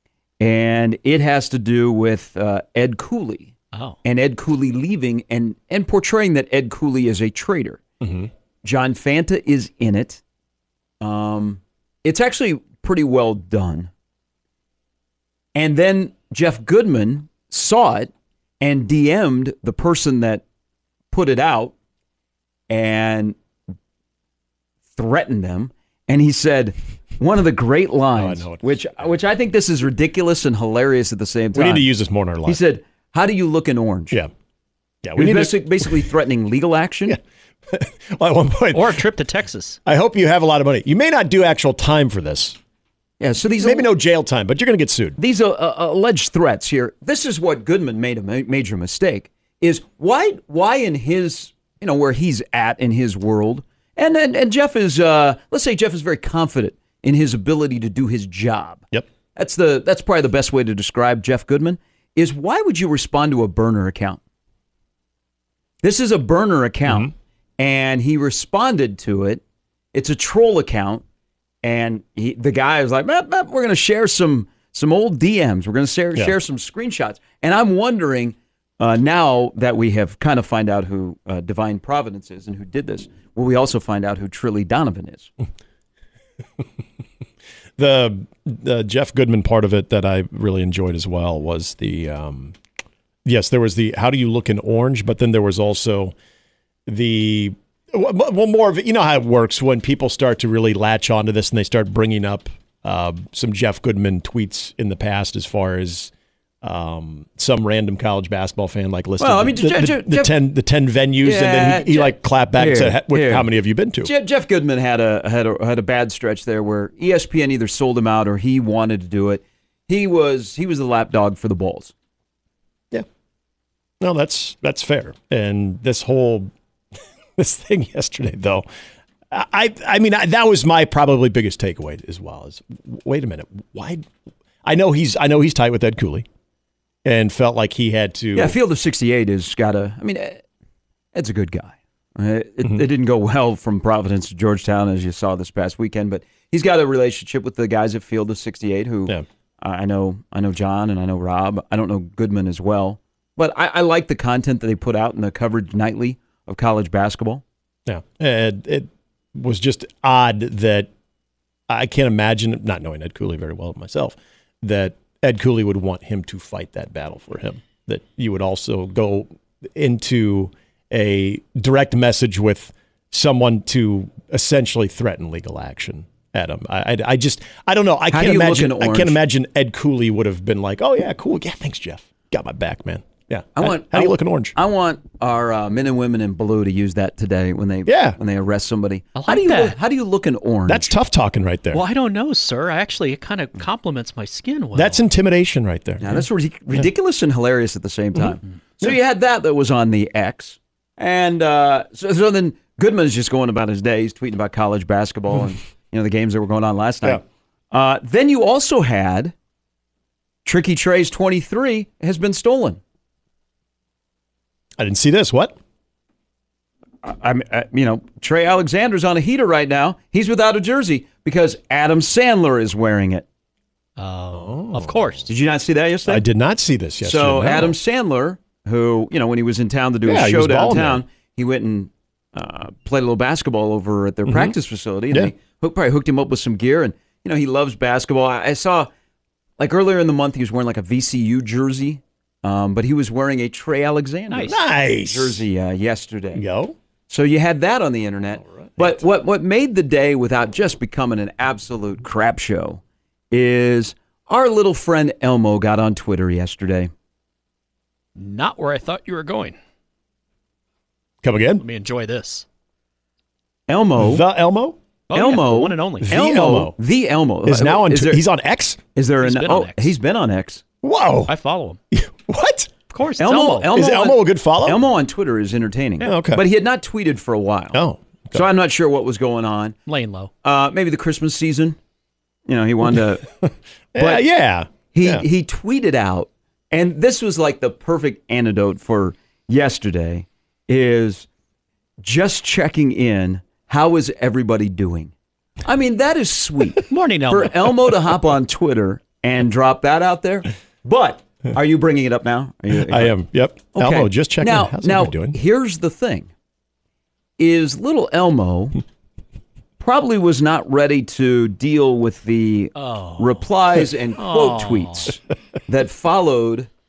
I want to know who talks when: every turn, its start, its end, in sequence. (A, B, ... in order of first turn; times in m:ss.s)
0:00.4-0:03.5 A
0:04.0-0:07.8 A
0:08.0-0:08.3 B
0:08.6-0:10.2 A
0:11.0-0:13.9 A
0:15.6-0:20.4 A
0:21.1-0:21.7 A
0:22.7-0:23.4 A
0:25.0-0:31.9 A
0:28.2-0:28.9 B
0:31.5-0:32.6 B
0:32.4-0:34.2 A
0:35.0-0:36.1 B
0:35.2-0:37.2 A
0:37.1-0:39.0 B
0:38.7-0:39.8 C
0:39.9-0:42.6 B
0:43.2-0:43.9 A
0:43.6-0:45.2 B
0:45.2-1:04.2 A
1:05.8-1:09.4 A
1:06.9-1:07.1 B
1:09.9-1:11.0 A
1:11.6-1:25.3 A
1:27.8-1:32.6 B
1:33.2-1:36.2 B
1:36.9-1:46.1 B
1:46.6-1:54.1 B
1:49.2-1:50.4 A
1:51.2-1:53.5 A
1:54.0-2:01.9 A
2:04.0-2:06.5 B
2:07.4-2:08.7 B
2:09.3-2:14.1 B
2:14.6-2:16.3 B
2:17.0-2:18.6 B
2:18.4-2:20.4 A
2:21.1-2:37.4 A
2:37.9-2:40.9 B
2:41.7-3:04.6 B
2:58.1-2:59.2 A
3:03.6-3:10.9 A
3:07.9-3:08.2 B
3:09.2-3:09.8 C
3:10.7-3:11.8 B
3:11.7-3:15.0 C
3:14.8-3:16.2 B
3:16.0-3:29.3 A
3:30.4-3:32.8 A
3:34.8-3:35.6 B
3:37.0-3:43.3 A
3:44.0-3:45.3 C
3:44.3-3:45.2 B
3:45.3-3:46.2 A
3:46.1-3:47.8 B
3:47.0-3:58.9 A
3:50.0-3:51.0 B
3:54.3-3:54.6 B
3:59.6-4:06.4 A
4:04.3-4:04.6 C
4:04.5-4:05.4 B
4:06.4-4:06.8 B
4:07.1-4:16.9 A
4:08.4-4:09.0 B
4:18.2-4:19.6 C
4:21.2-4:21.6 B
4:21.6-4:22.5 C
4:23.7-4:24.2 A
4:24.0-4:24.8 B
4:25.1-4:26.1 C
4:25.1-4:28.2 A
4:26.0-4:26.8 B
4:27.5-4:28.8 B
4:29.0-4:30.6 A
4:29.2-4:30.0 C
4:30.8-4:31.3 B
4:31.3-4:31.8 C
4:31.9-4:32.7 B
4:32.9-4:33.7 C
4:33.2-4:39.8 A
4:33.7-4:34.8 B
4:36.0-4:36.4 B
4:37.7-4:38.5 B
4:39.9-4:40.3 C
4:40.4-4:41.8 A
4:42.5-4:43.3 A
4:43.4-4:45.3 B
4:44.0-4:44.2 A
4:44.9-4:51.3 A
4:52.0-4:55.1 A
4:55.6-5:03.2 A
4:56.9-4:57.9 C
5:02.8-5:05.4 B
5:03.7-5:06.3 A
5:07.4-5:08.8 A
5:09.8-5:16.7 A
5:12.8-5:13.5 C
5:14.2-5:15.1 C